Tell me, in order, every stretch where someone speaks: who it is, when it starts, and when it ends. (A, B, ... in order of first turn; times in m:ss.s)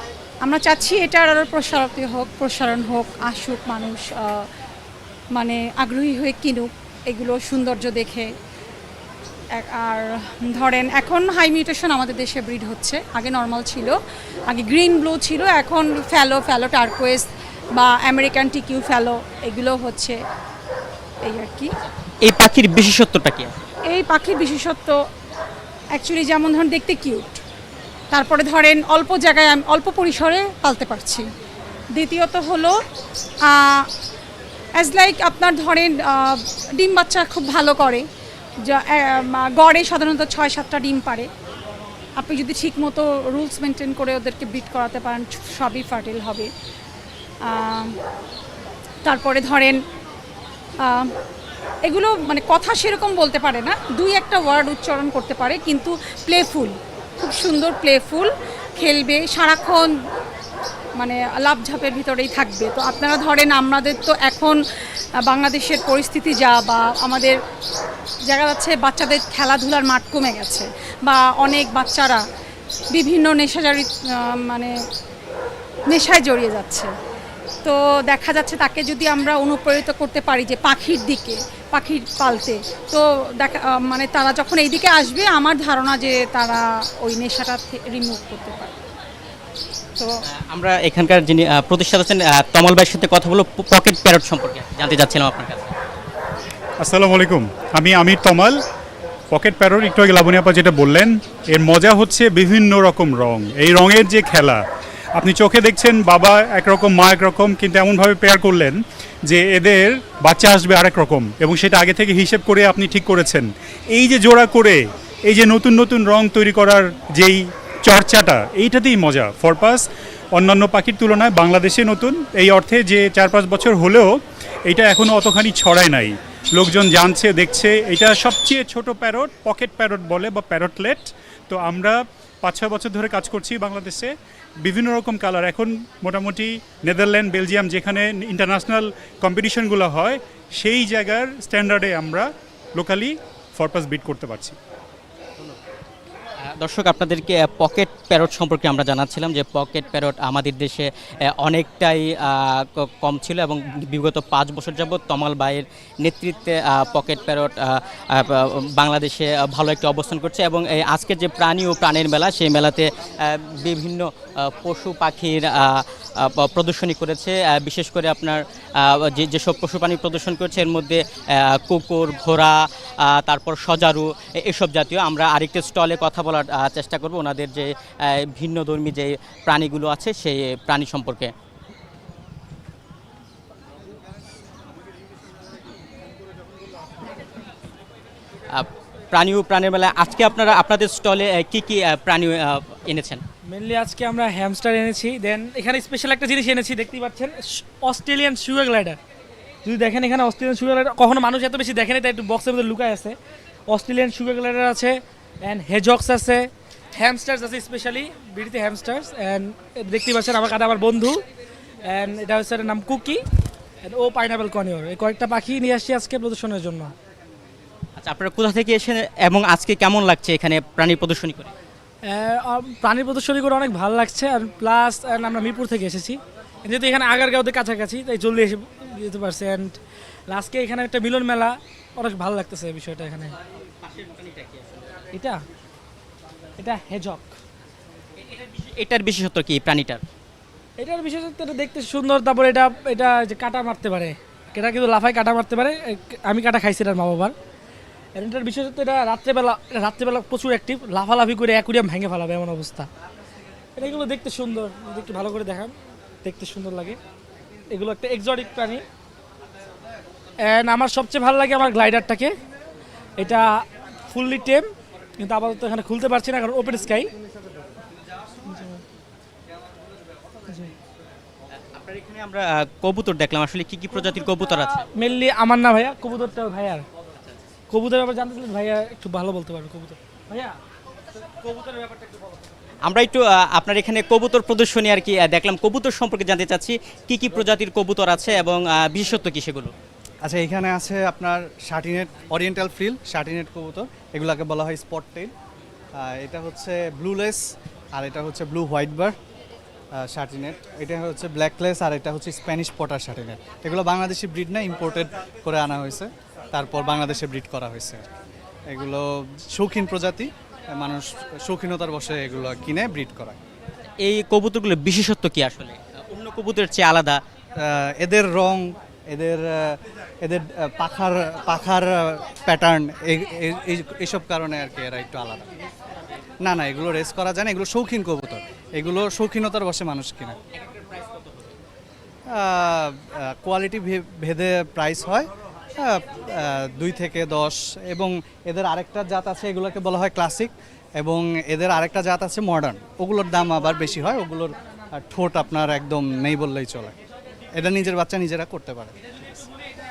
0:00.4-0:04.4 A
0:05.3-0:08.3 A
0:09.6-0:20.2 A
0:21.2-0:21.7 A
0:22.2-0:23.6 B
0:23.9-0:25.0 A
0:25.9-0:27.4 A
0:28.1-0:31.3 A
0:31.9-0:32.8 A
0:33.5-0:33.9 A
0:34.8-0:38.1 A
0:38.6-0:41.3 A
0:42.2-0:46.5 A
0:47.5-0:48.0 A
0:49.0-0:49.8 A
0:50.8-0:51.1 A
0:51.8-0:59.9 A
1:01.0-1:04.6 A
1:05.2-1:07.4 A
1:08.3-1:12.2 A
1:12.9-1:14.7 A
1:15.9-1:16.9 A
1:17.6-1:28.8 A
1:30.4-1:35.8 B
1:36.8-1:38.6 C
1:39.3-1:44.6 C
1:45.2-2:14.1 C
2:14.6-2:24.6 C
2:26.6-3:01.3 B
3:08.5-3:13.2 B
3:13.5-3:19.0 D
3:19.6-3:23.2 D
3:23.7-3:31.2 D
3:31.9-3:33.2 D
3:33.9-3:36.9 D
3:38.0-3:41.5 B
3:42.1-3:49.8 D
3:50.3-3:53.4 D
3:53.8-3:54.9 B
3:55.1-3:55.4 D
3:56.6-3:57.3 D
3:58.2-4:00.0 B
4:00.8-4:07.3 D
4:08.2-4:12.9 D
4:13.8-4:15.7 D
4:16.2-4:17.0 D
4:17.7-4:18.8 D
4:20.5-4:22.3 D
4:23.2-4:24.7 D
4:25.2-4:27.1 D
4:28.5-4:28.8 D
4:31.7-4:34.9 B
4:34.9-4:36.8 D
4:37.7-4:40.5 D
4:41.4-4:42.0 D
4:42.8-4:49.7 B
4:50.2-4:55.3 E
4:56.0-4:57.4 E
4:57.9-4:59.2 E
5:00.0-5:08.1 E
5:08.7-5:13.4 E
5:14.0-5:17.2 B
5:17.6-5:25.5 E
5:26.4-5:30.4 E
5:30.5-5:31.6 B
5:32.3-5:46.9 E
5:47.6-5:49.4 E